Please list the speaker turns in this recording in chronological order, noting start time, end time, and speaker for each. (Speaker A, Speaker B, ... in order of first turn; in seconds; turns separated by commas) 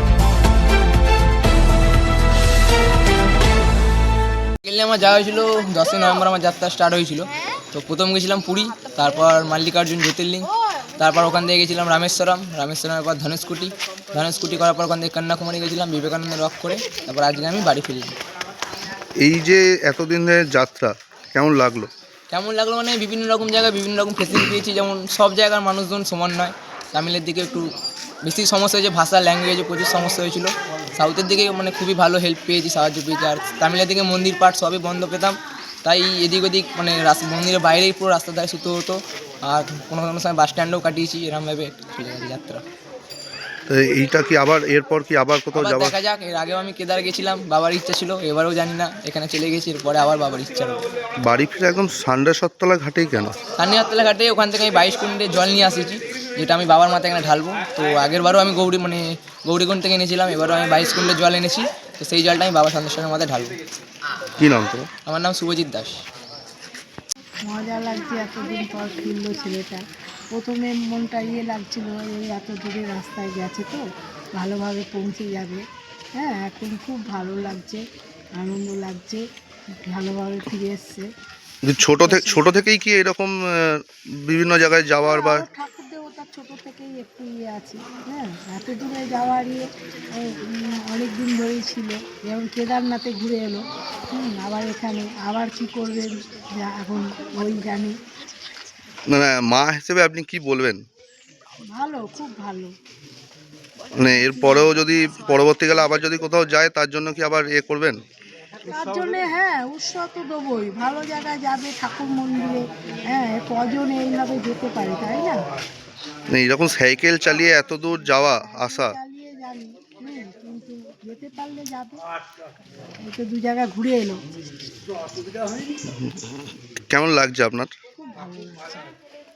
Speaker A: 4.6-18.1, Speaker B: 19.2-21.9, Speaker A: 22.3-27.7, Speaker A: 28.2-42.6, Speaker B: 43.7-46.0, Speaker A: 45.5-50.8, Speaker B: 51.2-53.4, Speaker A: 53.6-63.5, Speaker B: 64.4-64.9, Speaker A: 65.1-66.0, Speaker C: 67.5-69.8, Speaker C: 70.3-73.8, Speaker C: 74.4-75.6, Speaker C: 76.2-77.8, Speaker C: 78.4-79.2, Speaker C: 79.8-81.1, Speaker B: 81.6-85.5, Speaker C: 81.9-82.5, Speaker C: 85.0-89.7, Speaker C: 90.2-98.0, Speaker B: 99.1-100.8, Speaker C: 101.7-102.7, Speaker B: 104.0-108.0, Speaker C: 104.0-104.7, Speaker C: 108.7-115.4, Speaker B: 116.3-119.0, Speaker C: 118.2-122.0, Speaker C: 123.0-124.2, Speaker B: 125.9-127.7, Speaker C: 128.0-128.9